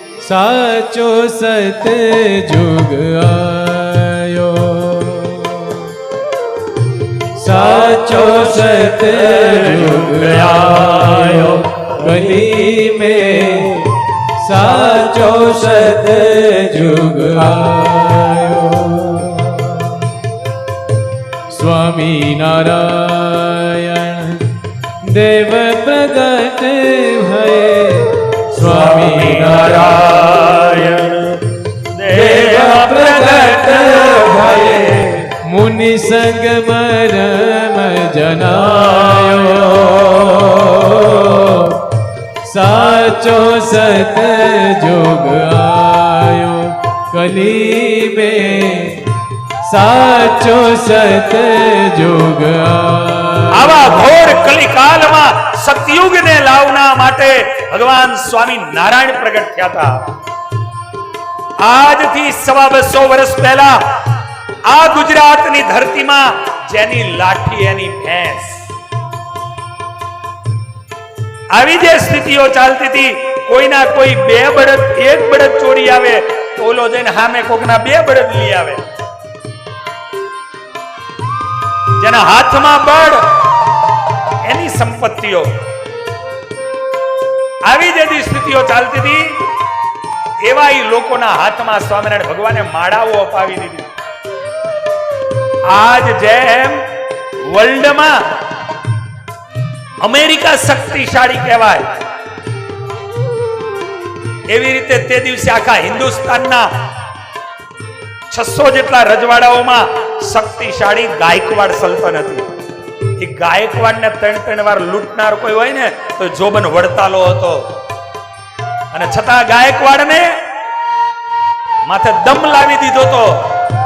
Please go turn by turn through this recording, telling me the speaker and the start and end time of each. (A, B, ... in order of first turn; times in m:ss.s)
0:00.2-0:05.9 A
0:07.4-0:20.0 A
0:09.4-0:11.7 B
0:21.5-0:24.5 A
0:25.0-0:30.1 A
0:28.6-0:35.3 B
0:32.1-0:41.8 A
0:38.8-0:39.6 B
0:42.4-0:49.1 A
0:49.6-0:54.0 A
0:53.5-0:59.9 B
1:01.6-1:03.8 B
1:04.7-1:08.6 B
1:11.5-1:18.8 B
1:22.0-1:23.2 B
1:24.4-1:25.5 B
1:27.7-1:29.4 B
1:30.4-1:33.9 B
1:35.7-1:36.8 B
1:37.5-1:38.2 B
1:40.0-1:41.8 B
1:44.5-1:46.7 B
1:48.3-1:52.4 B
1:53.2-1:57.6 B
1:58.9-2:00.3 B
2:01.9-2:03.4 B